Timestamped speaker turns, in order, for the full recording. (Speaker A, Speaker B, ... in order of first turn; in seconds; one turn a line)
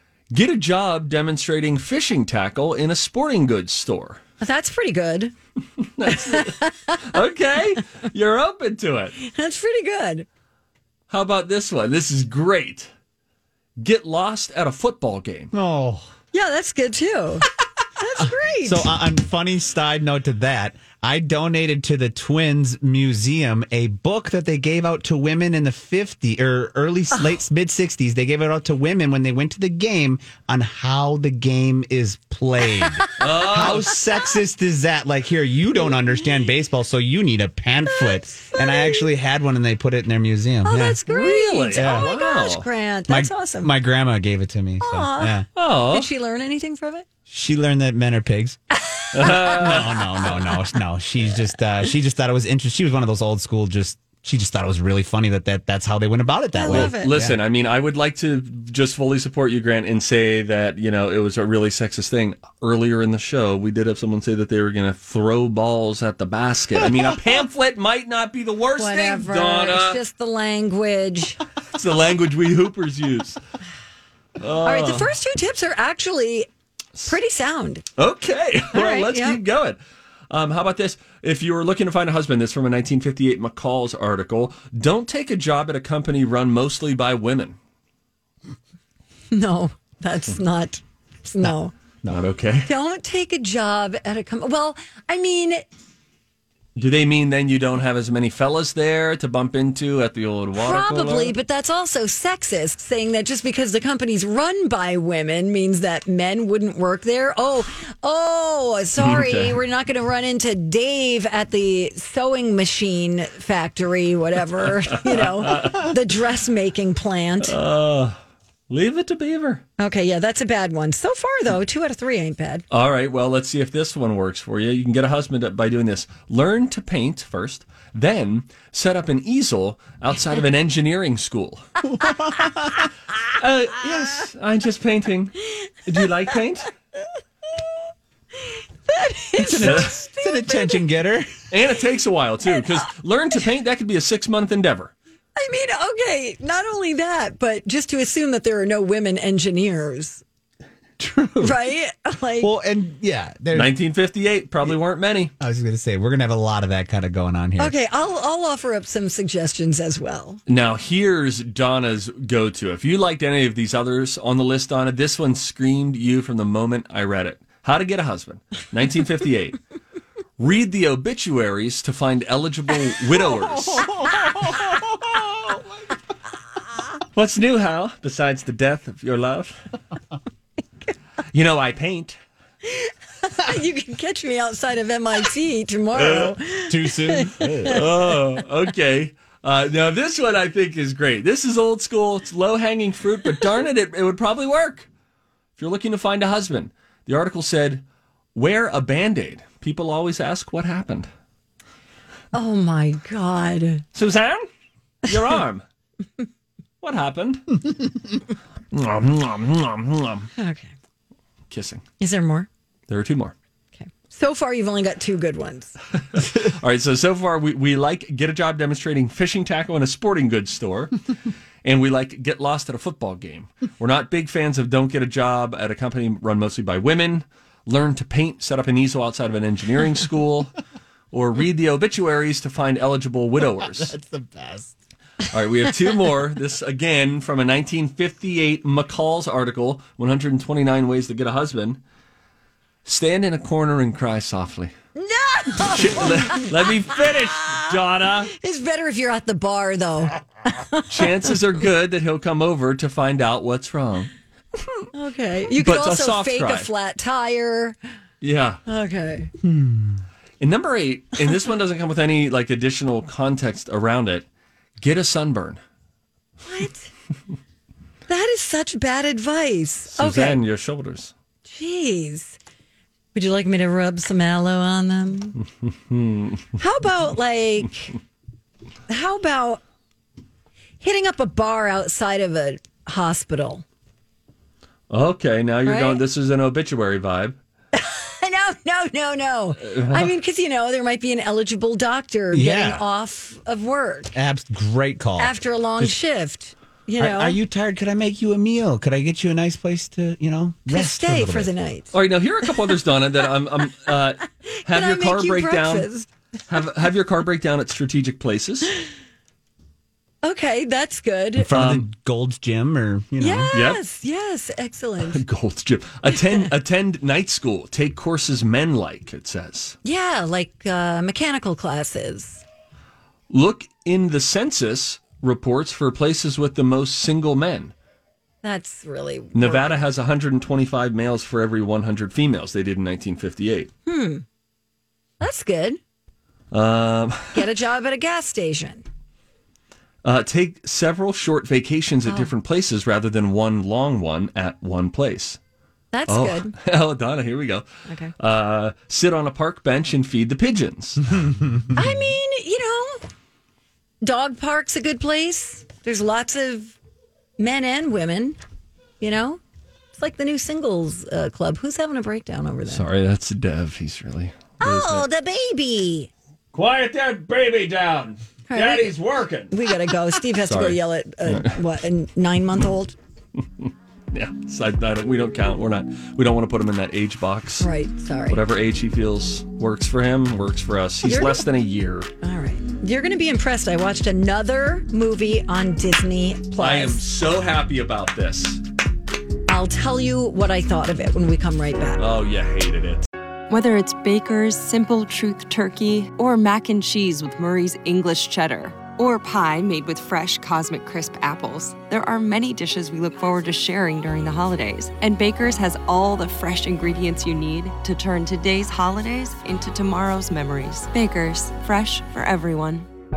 Speaker A: 0.3-4.2
Speaker B: 4.4-5.3
Speaker A: 5.8-9.1
Speaker B: 6.1-7.0
Speaker B: 9.2-10.3
Speaker A: 11.1-12.9
Speaker A: 13.8-15.5
Speaker C: 15.5-16.1
Speaker B: 16.3-18.9
Speaker C: 18.6-41.0
Speaker A: 33.2-34.0
Speaker B: 37.9-39.0
Speaker B: 40.6-43.7
Speaker A: 41.1-42.6
Speaker C: 41.7-42.1
Speaker C: 43.1-45.5
Speaker B: 44.8-47.0
Speaker A: 45.5-46.1
Speaker C: 47.3-48.6
Speaker A: 49.1-49.9
Speaker B: 49.1-49.6
Speaker C: 49.2-57.4
Speaker B: 56.5-57.1
Speaker A: 56.7-70.0
Speaker B: 68.8-71.4
Speaker A: 71.7-73.4
Speaker A: 74.4-75.1
Speaker B: 74.6-76.5
Speaker B: 77.0-77.8
Speaker A: 78.0-79.8
Speaker B: 78.7-79.4
Speaker A: 80.3-87.5
Speaker B: 89.3-91.7
Speaker A: 92.1-92.7
Speaker B: 92.7-95.6
Speaker A: 96.8-101.3
Speaker B: 100.6-117.5
Speaker A: 109.0-109.6
Speaker A: 115.1-115.8
Speaker A: 117.4-118.2
Speaker A: 118.7-119.6
Speaker B: 119.8-122.6
Speaker A: 122.7-131.7
Speaker C: 132.0-132.8
Speaker A: 133.3-136.7
Speaker B: 138.9-140.8
Speaker C: 139.4-141.3
Speaker A: 139.6-139.9
Speaker A: 141.5-144.9
Speaker B: 145.3-150.2
Speaker C: 151.0-151.6
Speaker B: 151.4-152.5
Speaker C: 152.4-153.7
Speaker A: 153.5-155.3
Speaker C: 155.4-157.7
Speaker B: 157.6-160.4
Speaker A: 160.5-169.6
Speaker A: 170.4-173.9
Speaker C: 173.6-175.6
Speaker B: 174.0-174.4
Speaker A: 177.1-179.6
Speaker A: 181.3-182.2
Speaker B: 182.6-187.8
Speaker A: 185.9-186.3
Speaker C: 186.7-187.9
Speaker A: 187.6-194.9
Speaker A: 195.6-197.8
Speaker A: 198.3-201.1
Speaker B: 202.3-203.8
Speaker A: 203.9-204.4
Speaker A: 205.0-205.6
Speaker A: 206.8-207.6
Speaker A: 208.7-210.3
Speaker B: 210.4-210.7
Speaker A: 211.5-211.8
Speaker B: 212.0-212.5
Speaker A: 212.9-213.3
Speaker B: 213.8-215.8
Speaker A: 216.1-220.9
Speaker A: 221.6-230.5
Speaker A: 231.1-233.9
Speaker C: 233.6-234.7
Speaker A: 235.3-241.8
Speaker A: 242.8-244.7
Speaker B: 244.9-247.6
Speaker A: 245.7-248.3
Speaker B: 248.3-251.0
Speaker A: 250.9-254.1
Speaker B: 254.9-257.8
Speaker A: 255.6-256.7
Speaker A: 258.2-258.6
Speaker B: 258.7-259.3
Speaker C: 259.4-260.0
Speaker A: 260.4-264.2
Speaker A: 264.8-265.6
Speaker B: 266.4-266.9
Speaker B: 268.1-270.4
Speaker A: 269.9-271.1
Speaker B: 271.4-272.4
Speaker B: 273.1-275.4
Speaker A: 275.9-276.4
Speaker B: 276.6-277.9
Speaker B: 278.9-279.6
Speaker B: 280.8-283.6
Speaker A: 284.9-287.4
Speaker B: 285.6-286.0
Speaker B: 287.7-294.1
Speaker A: 289.6-290.1
Speaker C: 292.3-292.8
Speaker C: 294.1-295.9
Speaker B: 295.2-297.4
Speaker C: 297.0-301.5
Speaker B: 300.7-301.9
Speaker A: 301.9-305.9
Speaker B: 304.5-306.1
Speaker A: 306.5-308.7
Speaker B: 310.2-311.5
Speaker C: 311.4-313.5
Speaker A: 311.5-311.9
Speaker B: 313.2-315.2
Speaker A: 313.5-313.8
Speaker A: 315.0-319.8
Speaker B: 319.8-322.4
Speaker A: 323.3-327.7
Speaker B: 328.4-329.8
Speaker A: 329.3-333.7
Speaker B: 333.9-334.2
Speaker B: 335.2-335.8
Speaker A: 336.5-337.4
Speaker B: 337.3-338.8
Speaker A: 340.0-345.4
Speaker B: 345.9-346.5
Speaker A: 346.1-347.6
Speaker B: 347.9-348.1
Speaker A: 348.2-351.1
Speaker B: 351.7-353.1
Speaker B: 354.0-356.8
Speaker B: 357.4-358.4
Speaker B: 359.0-359.4
Speaker B: 359.9-362.8
Speaker A: 362.7-365.1
Speaker B: 364.6-366.1
Speaker A: 366.5-369.5
Speaker B: 368.5-368.9
Speaker B: 369.5-372.9
Speaker A: 370.4-371.5
Speaker A: 373.6-377.7
Speaker B: 377.6-378.4
Speaker A: 378.3-382.1
Speaker B: 381.0-381.4
Speaker B: 382.2-387.0
Speaker A: 386.6-388.6
Speaker B: 389.5-392.0
Speaker A: 392.0-393.0
Speaker D: 393.5-412.9